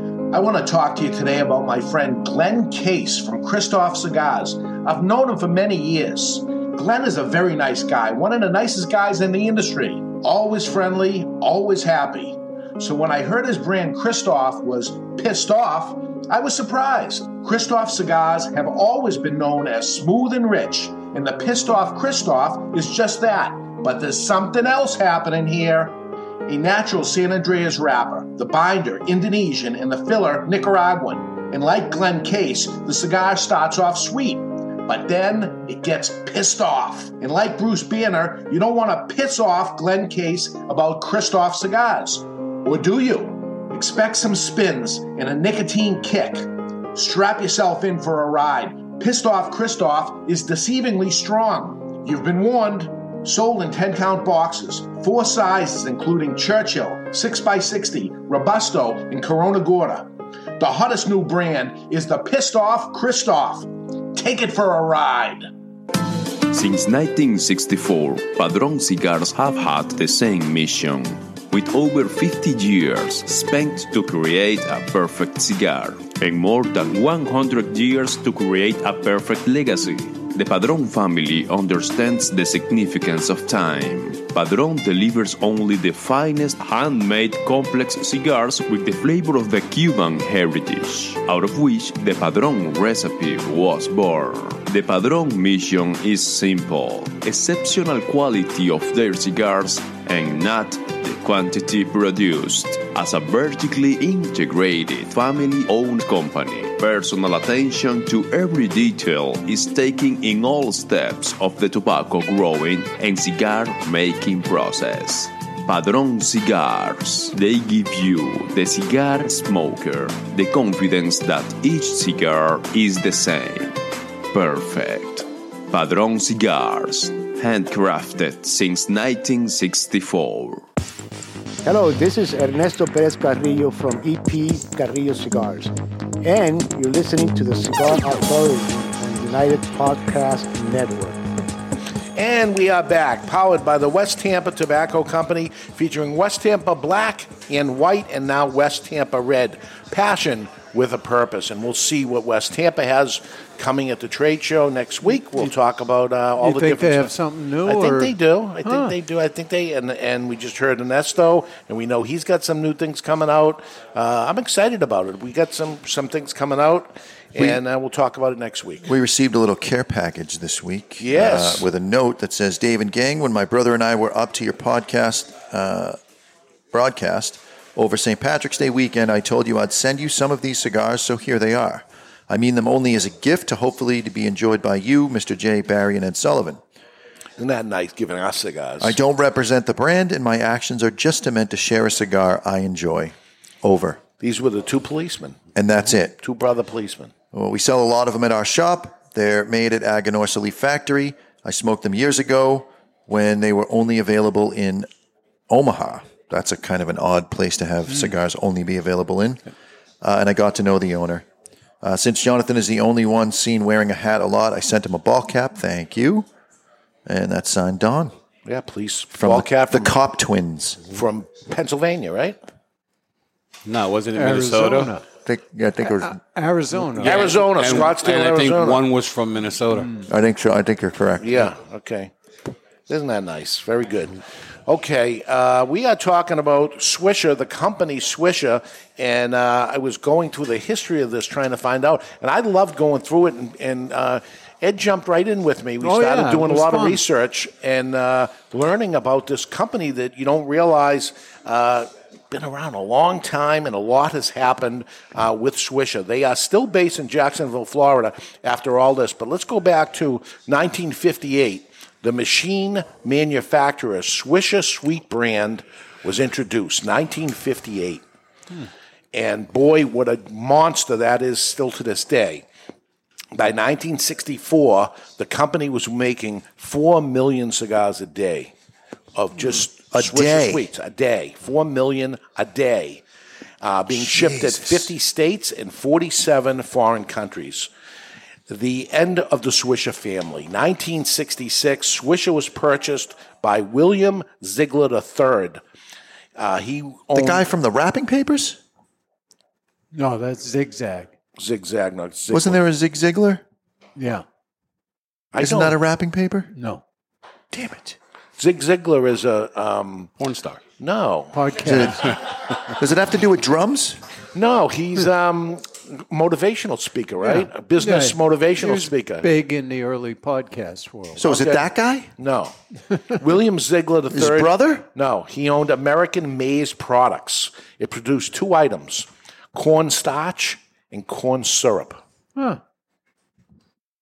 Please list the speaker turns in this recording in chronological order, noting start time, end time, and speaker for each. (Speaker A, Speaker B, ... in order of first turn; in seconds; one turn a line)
Speaker A: 0.3-25.9
Speaker A: 26.5-60.1
Speaker A: 60.6-65.5
Speaker B: 66.5-123.8
Speaker B: 124.3-130.6
Speaker C: 131.6-141.2
Speaker A: 142.2-157.1
Speaker D: 156.4-158.9
Speaker A: 157.7-168.9
Speaker E: 167.3-167.6
Speaker E: 168.8-176.0
Speaker A: 171.0-171.7
Speaker E: 176.7-186.6
Speaker A: 187.4-189.0
Speaker E: 188.8-194.0
Speaker A: 194.2-195.4
Speaker E: 195.5-196.2
Speaker A: 196.0-197.1
Speaker E: 197.3-204.9
Speaker E: 205.5-209.4
Speaker E: 210.0-211.2
Speaker E: 211.8-216.3
Speaker E: 217.1-218.1
Speaker A: 218.4-219.9
Speaker E: 219.1-220.9
Speaker A: 220.9-222.4
Speaker F: 223.6-224.9
Speaker D: 224.1-225.0
Speaker E: 225.2-226.2
Speaker D: 225.8-227.5
Speaker F: 227.0-230.0
Speaker A: 227.0-228.8
Speaker E: 230.1-231.5
Speaker A: 231.2-232.1
Speaker A: 232.9-268.0
Speaker D: 245.8-247.0
Speaker A: 269.1-272.4
Speaker A: 273.3-278.5
Speaker A: 279.1-283.0
Speaker E: 279.9-280.7
Speaker A: 283.6-287.7
Speaker E: 283.9-284.9
Speaker A: 288.5-295.6
Speaker A: 296.4-297.4
Speaker E: 297.1-298.6
Speaker D: 299.9-301.1
Speaker A: 301.4-302.6
Speaker E: 302.3-303.4
Speaker D: 304.0-304.2
Speaker A: 305.3-305.8
Speaker E: 305.4-306.5
Speaker D: 306.5-306.8
Speaker E: 307.5-307.9
Speaker A: 308.4-310.1
Speaker F: 310.2-310.6
Speaker A: 310.8-311.4
Speaker D: 311.3-312.1
Speaker E: 311.6-314.0
Speaker A: 314.3-319.3
Speaker D: 317.2-321.2
Speaker E: 321.1-322.1
Speaker A: 321.2-321.6
Speaker A: 322.2-322.5
Speaker A: 323.1-332.0
Speaker E: 324.1-324.9